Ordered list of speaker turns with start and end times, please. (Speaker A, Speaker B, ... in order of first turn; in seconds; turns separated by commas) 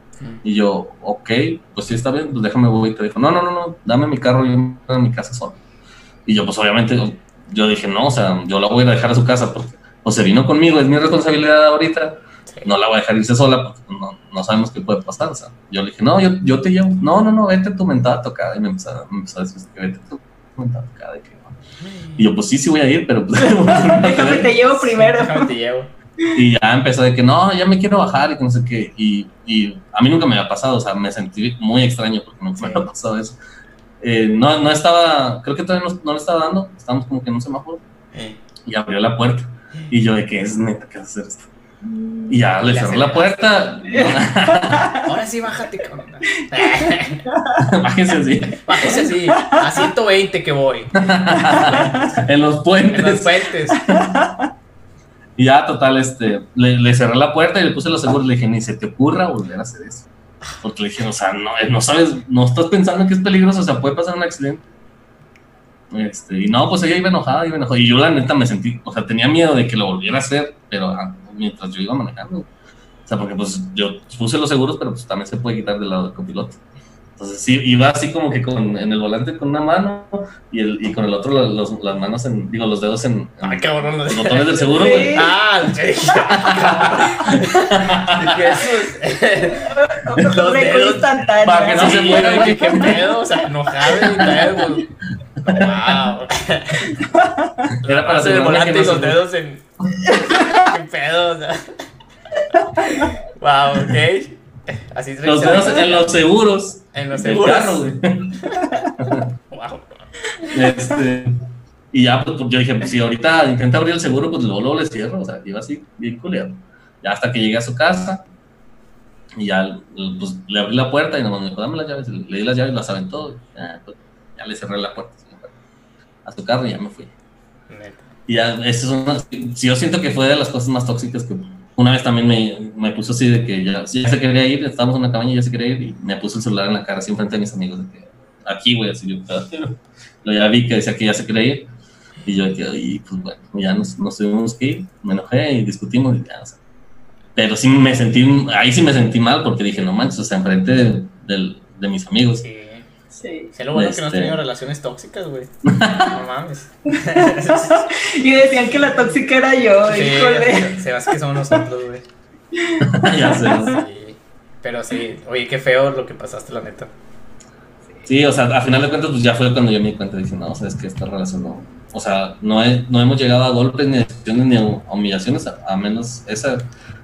Speaker A: 0.4-5.6, Speaker A: 6.2-21.6, Speaker A: 22.1-24.5, Speaker B: 23.6-25.5, Speaker C: 24.7-25.9, Speaker A: 26.3-33.4, Speaker C: 32.6-32.9, Speaker A: 34.0-37.8, Speaker C: 38.1-38.4, Speaker A: 38.6-41.5, Speaker A: 42.3-45.0, Speaker C: 42.6-43.7, Speaker B: 43.9-45.0, Speaker C: 45.0-47.3, Speaker B: 47.3-47.6, Speaker A: 47.5-49.0, Speaker C: 48.6-51.0, Speaker B: 48.8-49.9, Speaker A: 50.9-54.1, Speaker B: 51.4-52.0, Speaker C: 52.9-53.9, Speaker B: 53.8-54.5, Speaker A: 55.4-60.1, Speaker A: 60.6-64.6, Speaker A: 65.9-72.5, Speaker A: 73.1-76.6, Speaker A: 77.2-85.2, Speaker C: 83.4-91.1, Speaker B: 84.7-85.4, Speaker A: 86.3-88.4, Speaker B: 89.5-92.5, Speaker A: 91.4-93.1, Speaker C: 91.6-94.9, Speaker A: 93.9-94.6, Speaker A: 95.4-95.7, Speaker C: 95.5-97.0, Speaker B: 96.9-97.5, Speaker A: 97.7-99.2, Speaker C: 97.8-99.6, Speaker B: 100.1-100.5, Speaker C: 100.3-101.7, Speaker C: 102.8-106.2, Speaker A: 105.2-108.4, Speaker C: 106.9-107.9, Speaker A: 108.9-109.3, Speaker C: 109.5-110.0, Speaker A: 110.5-118.2, Speaker A: 119.4-125.5, Speaker A: 126.2-127.1, Speaker C: 127.7-128.0, Speaker A: 128.3-141.7, Speaker A: 142.2-146.6, Speaker A: 147.3-152.4, Speaker C: 152.4-152.8, Speaker B: 153.2-153.5, Speaker C: 153.5-155.5, Speaker A: 153.7-154.4, Speaker A: 155.6-156.2, Speaker C: 156.1-157.9, Speaker B: 157.1-160.9, Speaker C: 159.9-162.0, Speaker B: 162.5-163.8, Speaker A: 162.8-163.8, Speaker C: 163.4-166.9, Speaker A: 168.0-176.7